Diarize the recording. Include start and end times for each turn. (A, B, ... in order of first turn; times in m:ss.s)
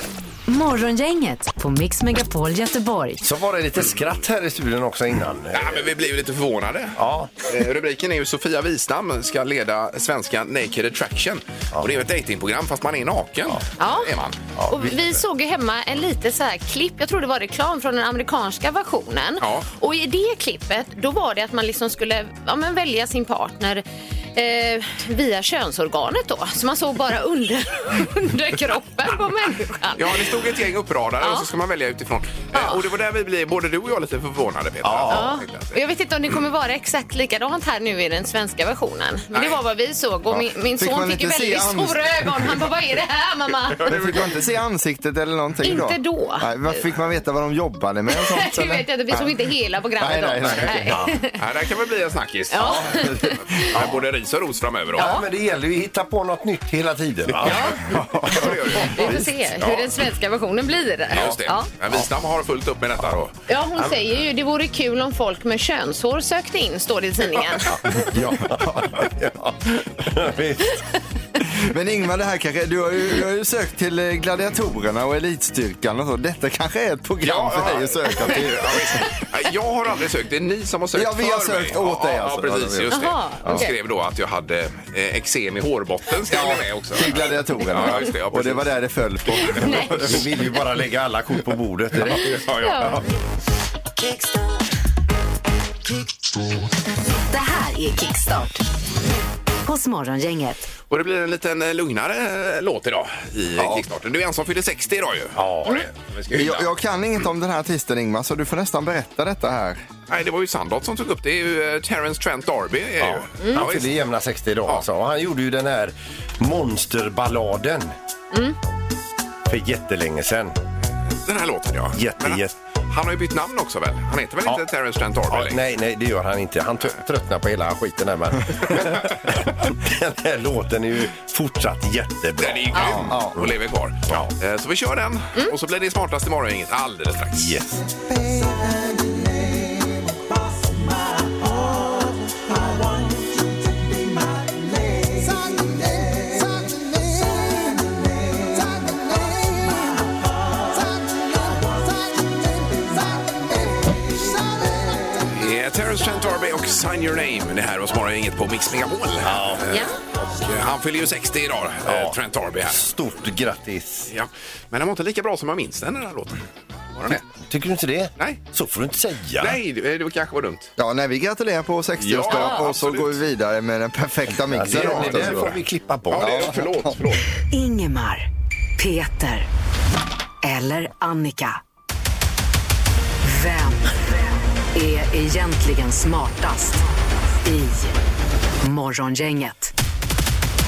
0:00.5-0:03.3 A
0:03.2-0:06.0 B
0:05.5-0:14.4 C
0:07.0-0:07.3 B
0:13.8-0:14.1 D
0:14.6-0:15.0 B
0:14.7-0:30.2 D
0:19.4-0:19.7 C
0:30.0-0:35.8 C
0:31.2-0:31.5 D
0:32.5-0:32.9 D
0:34.8-0:35.3 B
0:35.1-0:43.9 D
0:39.3-0:39.6 C
0:40.3-0:42.5 E
0:43.7-0:44.4 C
0:43.9-0:49.4 E
0:45.6-0:46.8 D
0:48.1-0:51.4 D
0:50.0-0:51.0 E
0:50.8-0:51.1 B
0:51.4-0:53.0 C
0:52.5-0:53.8 D
0:52.6-0:53.6 E
0:53.6-0:55.1 C
0:53.8-0:54.0 B
0:55.0-0:58.0 B
0:55.0-0:55.3 D
0:57.4-0:58.0 D
0:57.9-0:59.3 E
0:58.2-0:59.9 C
0:58.8-1:01.7 D
1:01.1-1:03.3 C
1:03.5-1:08.1 D
1:07.7-1:10.8 B
1:11.5-1:19.2 E
1:17.2-1:28.8 C
1:20.9-1:23.7 E
1:22.9-1:23.7 D
1:26.3-1:30.3 E
1:27.6-1:27.9 D
1:29.4-1:30.1 D
1:29.8-1:33.0 B
1:32.5-1:33.0 D
1:37.3-1:38.7 A
1:39.6-1:40.7 A
1:40.9-1:46.7 C
1:45.4-1:45.9 B
1:46.3-1:49.8 E
1:50.1-1:54.0 C
1:53.0-1:57.9 B
1:58.3-1:58.6 D
1:59.5-2:00.6 B
2:01.2-2:05.6 C
2:02.0-2:02.6 B
2:05.3-2:13.5 B
2:12.4-2:17.6 C
2:12.9-2:13.4 E
2:14.1-2:14.3 B
2:17.3-2:17.8 B
2:35.2-2:42.9 C
2:39.2-2:39.7 B
2:41.8-2:44.1 B
2:44.1-2:47.2 C
2:47.1-2:49.6 B
2:49.4-2:50.7 C
2:50.8-2:55.6 E
2:52.0-2:53.2 C
2:52.3-2:52.6 D
2:54.3-2:56.6 B
2:54.7-2:55.4 C
2:56.1-2:57.2 C
2:56.2-2:57.0 E
2:57.5-2:58.3 A
2:58.8-2:59.5 A
3:00.4-3:01.6 A
3:03.2-3:04.2 A
3:04.7-3:08.0 A
3:08.6-3:09.7 A